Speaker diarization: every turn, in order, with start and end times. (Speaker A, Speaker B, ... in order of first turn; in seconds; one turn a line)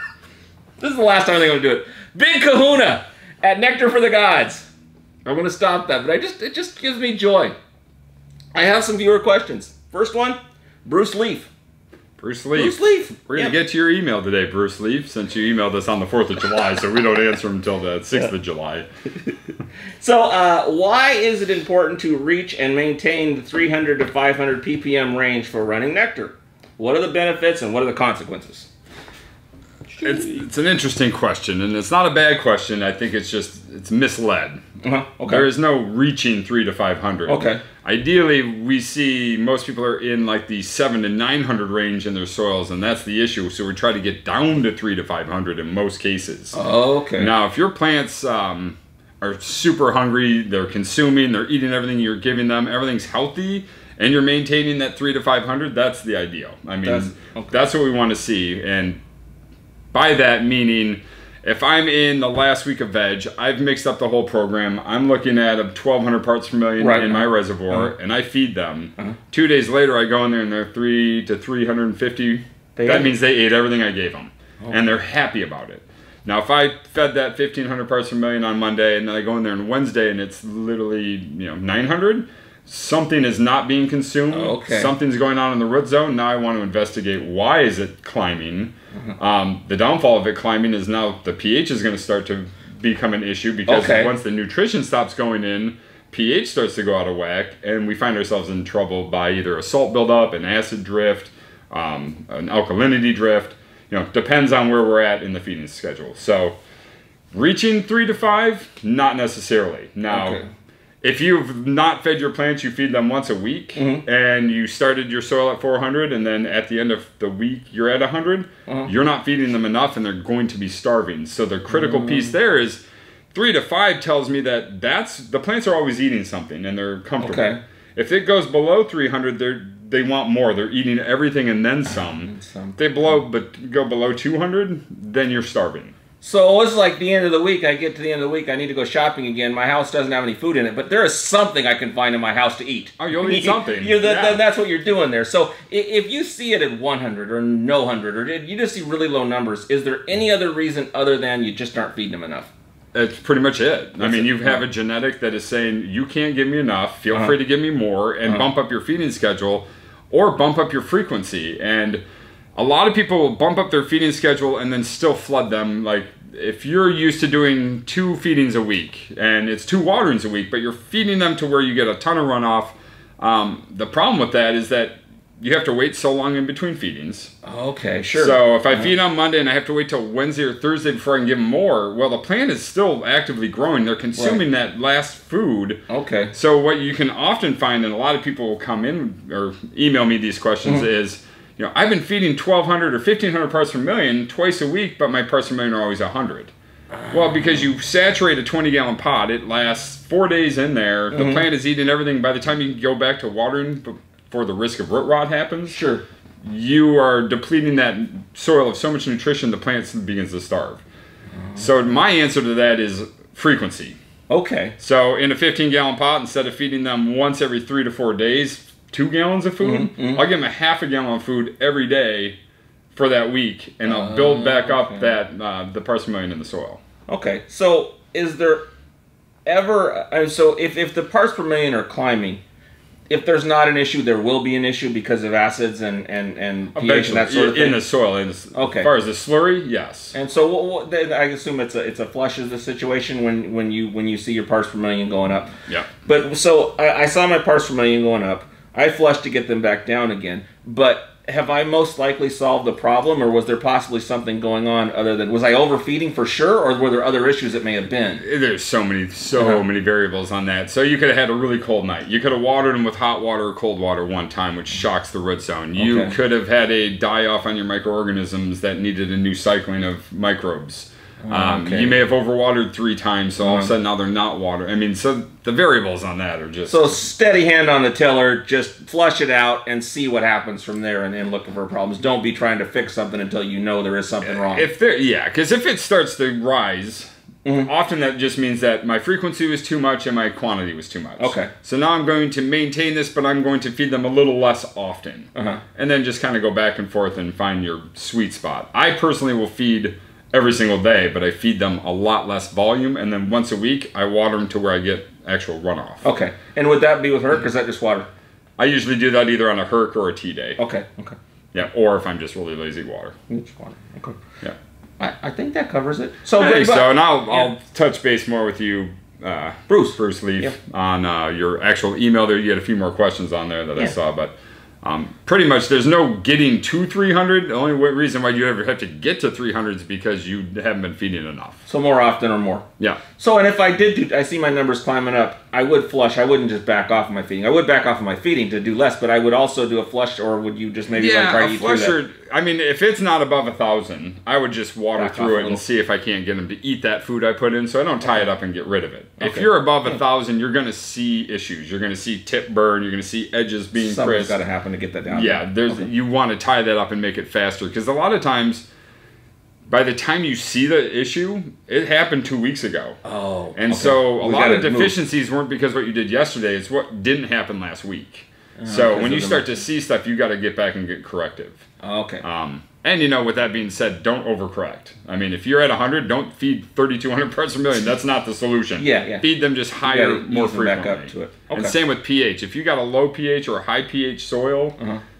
Speaker A: 0.8-4.7
Speaker A: 5.2-7.5
Speaker A: 8.5-11.5
Speaker B: 12.2-18.9
Speaker A: 12.5-13.6
Speaker A: 20.0-28.7
Speaker A: 29.9-30.4
Speaker B: 30.0-34.6
Speaker A: 34.8-35.5
Speaker B: 35.2-46.6
Speaker A: 37.3-37.6
Speaker A: 46.5-47.3
Speaker B: 47.2-59.0
Speaker A: 56.8-57.5
Speaker B: 59.9-106.6
Speaker A: 66.8-67.9
Speaker A: 72.8-73.1
Speaker A: 74.6-74.9
Speaker A: 84.3-84.9
Speaker A: 93.7-94.1
Speaker B: 107.3-110.4
Speaker A: 110.1-110.5
Speaker B: 111.0-135.9
Speaker A: 113.8-114.0
Speaker A: 121.7-122.3
Speaker A: 127.2-127.6
Speaker A: 132.0-133.2
Speaker A: 136.2-152.5
Speaker B: 143.0-144.4
Speaker B: 152.9-162.0
Speaker A: 154.0-154.6
Speaker B: 162.5-177.3
Speaker A: 177.4-178.9
Speaker B: 178.1-185.8
Speaker A: 184.2-184.4
Speaker A: 185.9-186.3
Speaker B: 186.3-196.5
Speaker B: 197.1-205.8
Speaker A: 201.1-201.4
Speaker A: 205.7-206.0
Speaker B: 206.4-210.8
Speaker B: 211.6-214.0
Speaker A: 214.3-214.7
Speaker B: 214.8-222.4
Speaker A: 219.6-220.2
Speaker B: 222.9-226.8
Speaker A: 223.8-225.2
Speaker A: 227.1-228.7
Speaker A: 229.4-232.4
Speaker A: 233.1-237.8
Speaker B: 236.8-240.1
Speaker A: 238.5-238.9
Speaker A: 240.1-245.5
Speaker A: 246.0-258.2
Speaker B: 258.2-276.9
Speaker A: 265.8-266.1
Speaker A: 271.2-272.0
Speaker A: 273.4-273.7
Speaker A: 276.7-284.7
Speaker B: 284.2-287.1
Speaker A: 287.4-287.7
Speaker B: 287.6-306.0
Speaker A: 291.2-291.5
Speaker A: 295.3-295.6
Speaker A: 306.0-308.1
Speaker B: 308.6-310.6
Speaker A: 310.6-311.1
Speaker B: 311.5-313.1
Speaker A: 313.3-314.2
Speaker A: 315.0-317.5
Speaker B: 316.4-331.6
Speaker A: 319.7-320.6
Speaker A: 331.6-332.6
Speaker A: 333.2-341.9
Speaker B: 340.9-354.4
Speaker A: 344.9-345.6
Speaker A: 349.2-349.9
Speaker A: 353.7-355.9
Speaker B: 355.1-358.7
Speaker B: 359.7-363.0
Speaker A: 363.0-364.9
Speaker B: 363.6-371.6
Speaker A: 368.6-369.6
Speaker A: 371.8-372.2
Speaker B: 372.2-384.8
Speaker A: 378.8-379.2
Speaker A: 379.8-381.8